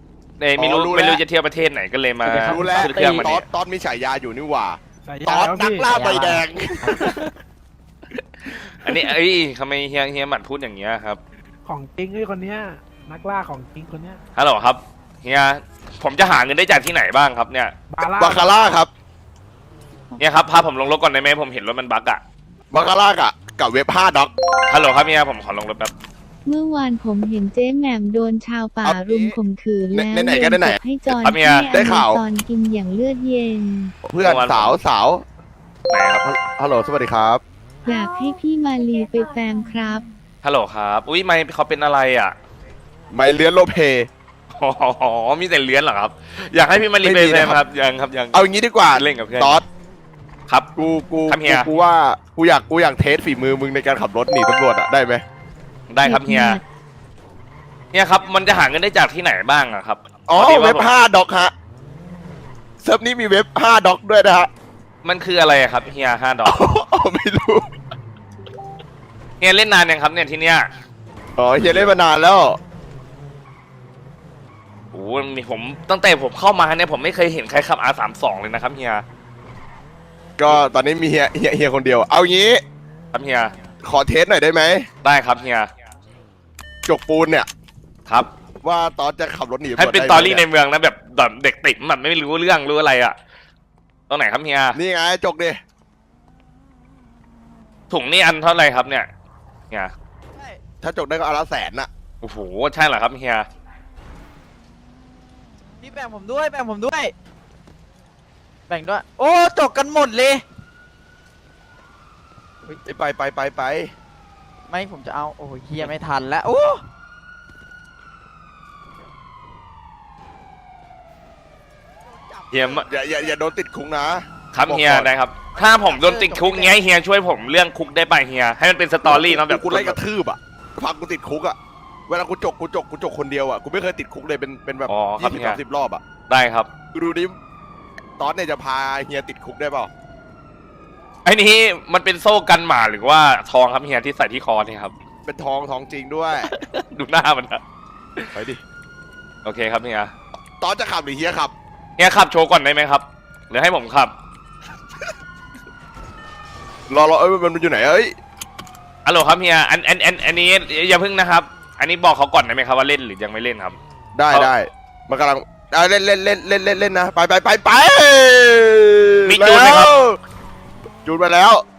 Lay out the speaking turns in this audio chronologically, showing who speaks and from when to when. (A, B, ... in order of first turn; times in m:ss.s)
0:00.4-0:03.5 A
0:00.6-0:01.2 B
0:02.2-0:03.2 C
0:02.4-0:07.1 B
0:05.1-0:05.9 C
0:06.9-0:07.3 C
0:08.5-0:11.2 A
0:11.6-0:14.2 C
0:14.4-0:17.7 A
0:17.9-0:18.7 C
0:18.2-0:18.9 B
0:20.2-0:22.2 A
0:22.7-0:24.3 B
0:24.7-0:25.9 A
0:26.4-0:34.0 D
0:28.8-0:29.4 B
0:29.9-0:30.8 B
0:31.1-0:31.8 A
0:31.7-0:32.2 B
0:34.0-0:35.2 B
0:34.2-0:34.8 A
0:35.9-0:36.2 A
0:36.2-0:37.4 B
0:37.9-0:40.0 D
0:40.4-0:42.4 A
0:43.1-0:44.1 B
0:44.6-0:49.6 A
0:47.0-0:47.6 B
0:48.3-0:49.6 B
0:50.8-0:55.2 B
0:51.3-0:51.7 A
0:55.9-0:56.6 A
0:56.0-0:56.6 D
0:57.9-1:00.9 A
1:00.3-1:01.5 B
1:02.8-1:04.5 B
1:05.0-1:06.6 A
1:06.4-1:07.7 B
1:09.4-1:10.7 A
1:11.4-1:12.6 B
1:11.6-1:12.0 A
1:14.9-1:19.0 A
1:20.4-1:22.6 B
1:23.1-1:23.5 A
1:23.8-1:24.9 B
1:25.0-1:25.7 A
1:26.9-1:27.5 B
1:28.6-1:30.4 B
1:29.8-1:33.2 A
1:34.1-1:34.8 A
1:34.7-1:35.6 B
1:37.9-1:39.1 A
1:40.4-1:40.6 E
1:40.8-1:41.9 B
1:42.2-1:43.5 A
1:45.8-1:47.1 E
1:48.7-1:50.4 E
1:52.8-1:53.9 B
1:54.7-1:56.8 E
2:02.1-2:02.8 E
2:02.5-2:02.9 A
2:02.9-2:05.1 B
2:04.5-2:10.0 A
2:05.6-2:06.8 E
2:09.0-2:11.6 B
2:12.1-2:16.0 B
2:14.9-2:15.6 A
2:16.3-2:16.7 A
2:16.9-2:17.4 B
2:18.2-2:19.9 B
2:21.2-2:24.9 A
2:25.3-2:26.5 B
2:26.4-2:27.6 A
2:28.3-2:28.6 B
2:29.4-2:30.1 A
2:30.6-2:31.5 B
2:32.0-2:34.1 A
2:36.9-2:38.1 B
2:39.0-2:43.8 A
2:44.1-2:50.2 B
2:49.3-2:49.9 A
2:51.0-2:51.6 B